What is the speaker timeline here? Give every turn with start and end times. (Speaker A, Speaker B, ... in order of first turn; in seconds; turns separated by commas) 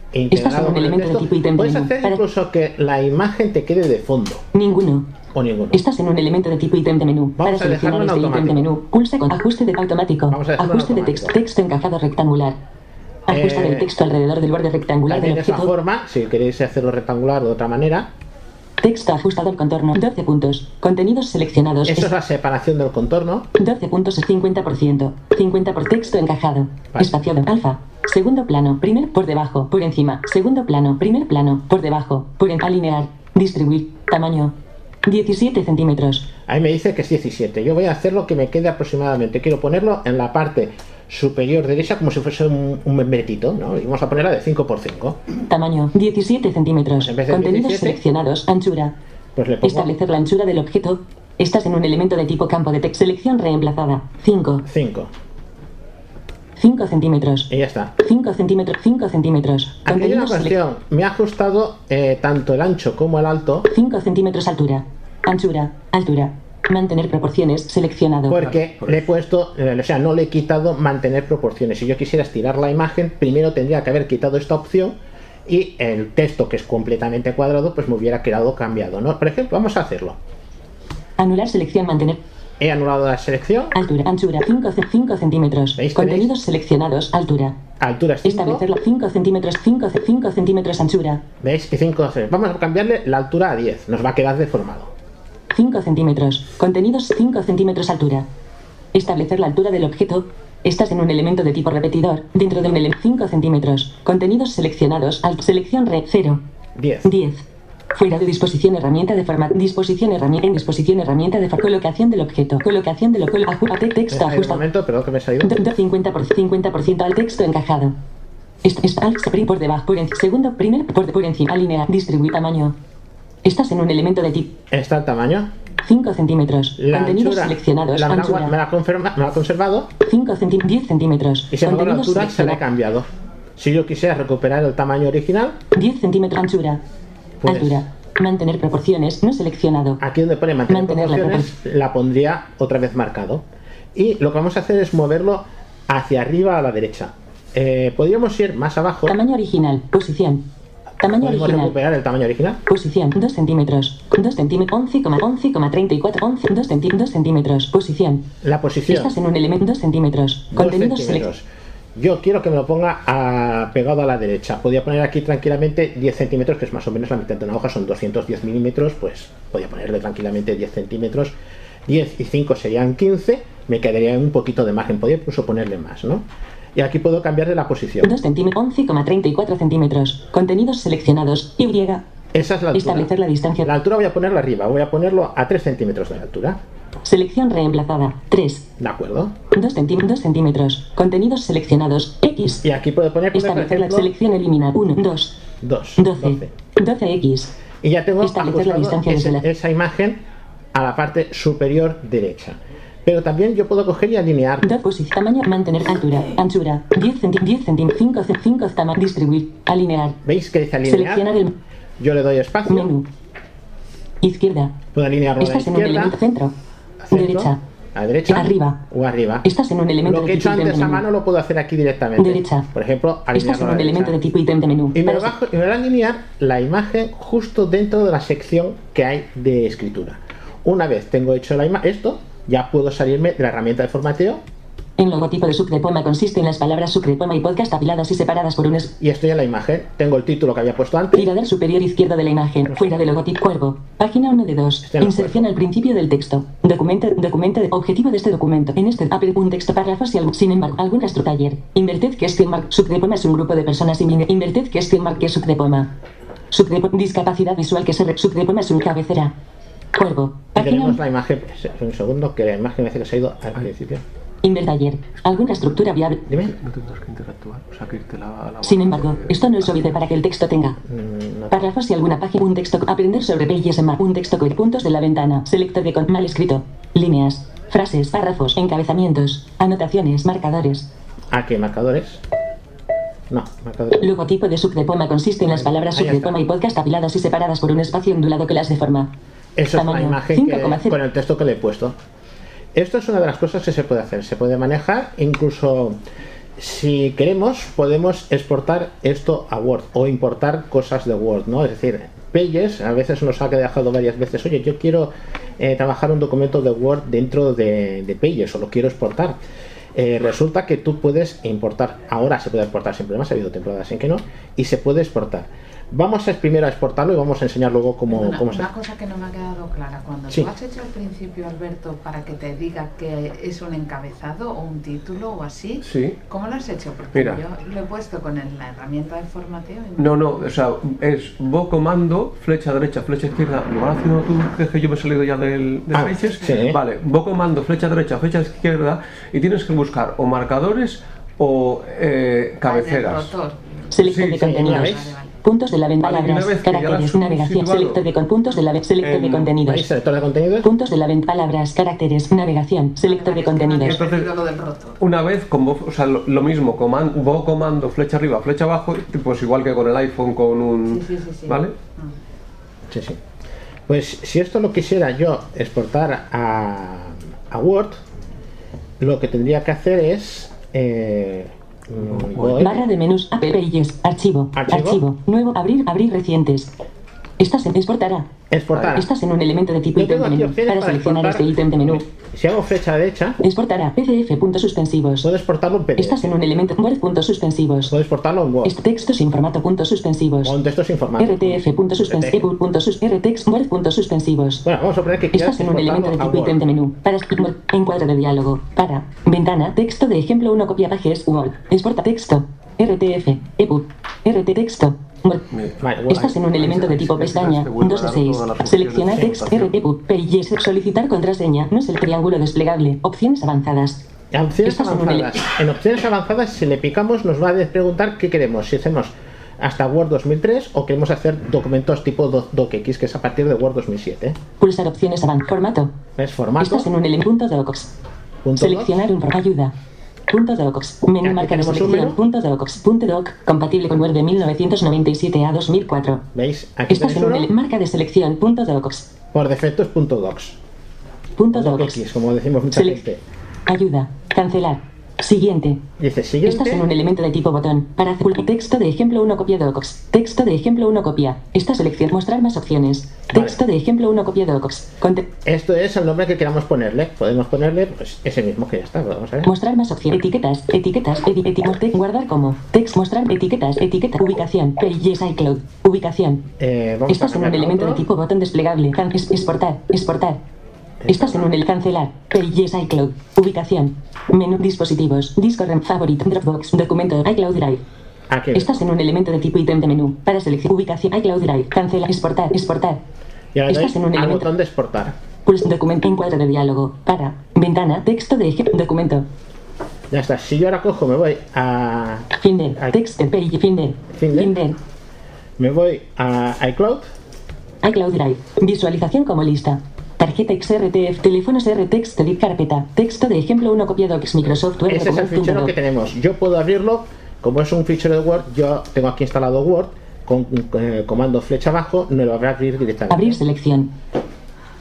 Speaker A: 0.1-4.5, Speaker B: 0.3-2.2, Speaker B: 4.5-5.1, Speaker A: 5.3-5.8, Speaker B: 5.7-12.6, Speaker A: 7.4-8.7, Speaker A: 10.3-11.4, Speaker B: 13.3-15.7, Speaker A: 13.3-13.9, Speaker A: 15.1-18.1, Speaker B: 18.8-22.1, Speaker A: 21.8-23.5, Speaker B: 23.6-34.5, Speaker A: 26.9-27.2, Speaker B: 35.1-36.3, Speaker A: 36.5-45.2, Speaker B: 45.5-49.0, Speaker A: 47.0-48.0, Speaker A: 49.4-49.9, Speaker B: 49.6-54.6, Speaker A: 54.6-55.1, Speaker B: 56.6-60.5, Speaker A: 57.5-58.0, Speaker A: 59.9-63.7, Speaker B: 63.7-68.4, Speaker A: 68.3-80.2, Speaker C: 68.4-69.0, Speaker B: 81.2-82.2, Speaker A: 82.6-83.8, Speaker B: 83.8-87.6, Speaker A: 85.8-86.3, Speaker A: 87.8-88.7, Speaker B: 88.2-91.2, Speaker A: 91.4-94.9, Speaker B: 95.5-98.3, Speaker B: 98.9-106.4, Speaker A: 106.8-107.1, Speaker B: 107.0-114.6, Speaker A: 114.1-115.7, Speaker B: 115.4-118.0, Speaker B: 118.6-122.8, Speaker B: 123.4-124.5, Speaker A: 124.7-125.5, Speaker B: 125.8-128.5, Speaker A: 126.8-129.9, Speaker B: 130.0-132.6, Speaker A: 131.5-135.6, Speaker B: 135.7-136.8, Speaker A: 137.4-137.9, Speaker B: 137.5-140.0, Speaker A: 140.0-149.2, Speaker B: 140.7-141.5, Speaker B: 149.1-150.5, Speaker B: 151.0-151.7, Speaker A: 151.1-152.6, Speaker B: 152.7-158.3, Speaker A: 158.4-159.2, Speaker B: 158.9-161.3, Speaker A: 160.5-178.2, Speaker B: 178.0-182.0, Speaker A: 182.3-183.1, Speaker B: 182.7-183.7, Speaker A: 183.6-186.6, Speaker B: 187.0-188.7, Speaker A: 188.8-189.4, Speaker B: 189.5-192.6, Speaker A: 192.6-194.1, Speaker B: 193.3-195.4, Speaker A: 195.6-196.5, Speaker B: 196.0-197.5, Speaker A: 197.8-200.2, Speaker B: 198.2-199.4, Speaker A: 200.7-204.8, Speaker B: 204.6-210.2, Speaker A: 210.2-211.3, Speaker B: 210.9-211.5, Speaker A: 212.0-212.9, Speaker B: 212.7-213.1, Speaker B: 214.2-214.8, Speaker A: 214.9-216.2, Speaker B: 215.4-216.5, Speaker A: 217.0-219.5, Speaker B: 217.1-217.6, Speaker B: 218.3-218.8, Speaker B: 219.4-221.1, Speaker A: 220.0-224.2, Speaker B: 222.2-222.7, Speaker B: 223.3-225.3, Speaker A: 224.9-234.4, Speaker B: 235.0-238.9, Speaker A: 239.0-241.3, Speaker B: 241.2-255.9, Speaker A: 242.7-243.0, Speaker A: 244.8-245.5, Speaker B: 256.5-259.3, Speaker B: 259.9-261.0, Speaker A: 260.6-264.0, Speaker B: 264.4-266.2, Speaker A: 266.3-266.5, Speaker C: 266.3-269.9, Speaker B: 268.6-270.8, Speaker A: 270.8-271.7, Speaker B: 271.5-280.9, Speaker A: 281.3-282.2, Speaker A: 283.3-284.1, Speaker B: 284.0-289.1, Speaker A: 285.4-286.4, Speaker A: 289.6-292.0, Speaker B: 289.8-290.9, Speaker A: 292.7-296.0, Speaker A: 296.6-309.4, Speaker A: 309.9-318.7, Speaker D: 318.1-330.2, Speaker C: 325.8-326.2, Speaker C: 327.1-327.4, Speaker C: 330.0-343.3, Speaker A: 335.9-336.8, Speaker D: 342.6-343.6, Speaker B: 343.9-349.9, Speaker C: 344.0-344.6, Speaker A: 344.4-345.1, Speaker D: 344.7-345.4, Speaker C: 346.0-348.1, Speaker C: 349.0-349.5, Speaker A: 349.6-350.7, Speaker B: 350.6-354.0, Speaker D: 353.0-355.0, Speaker C: 353.8-354.3, Speaker C: 355.0-361.8, Speaker D: 360.9-362.1, Speaker A: 362.9-363.2, Speaker A: 363.9-368.0, Speaker A: 369.0-372.9, Speaker C: 372.1-372.7, Speaker B: 372.6-376.7, Speaker A: 374.5-375.0, Speaker B: 377.4-378.3, Speaker A: 378.5-379.1, Speaker B: 378.9-382.0, Speaker A: 379.9-383.4, Speaker B: 383.4-385.3, Speaker A: 385.2-386.4, Speaker B: 386.0-387.9, Speaker A: 387.9-388.8, Speaker B: 388.6-390.6, Speaker A: 390.4-392.5, Speaker B: 391.2-394.6, Speaker A: 394.6-396.6, Speaker B: 395.3-405.4, Speaker C: 405.5-409.8, Speaker A: 405.8-406.5, Speaker B: 406.1-414.0, Speaker A: 414.3-424.4, Speaker B: 414.6-415.4, Speaker B: 424.6-425.9, Speaker A: 426.2-426.9, Speaker B: 426.6-427.9, Speaker A: 428.4-429.0, Speaker B: 428.6-429.7, Speaker B: 430.3-436.2, Speaker A: 431.2-432.2, Speaker A: 436.3-437.5, Speaker B: 436.9-439.1, Speaker A: 439.3-440.6, Speaker B: 441.4-442.0, Speaker A: 441.5-443.2, Speaker B: 442.7-443.0, Speaker B: 443.7-445.8, Speaker A: 446.0-446.9, Speaker B: 446.5-455.3, Speaker A: 453.3-453.6, Speaker A: 455.4-459.5, Speaker B: 459.4-466.4, Speaker A: 466.6-468.1, Speaker B: 467.1-470.4, Speaker A: 471.0-471.5, Speaker B: 471.1-477.8, Speaker A: 478.3-478.8, Speaker B: 478.6-483.0, Speaker A: 483.5-485.2, Speaker B: 483.7-484.5, Speaker B: 485.4-489.3, Speaker A: 490.1-492.9, Speaker B: 492.4-494.8, Speaker A: 494.1-494.6, Speaker A: 495.6-497.1, Speaker B: 497.8-505.7, Speaker A: 504.9-513.4, Speaker B: 513.1-513.9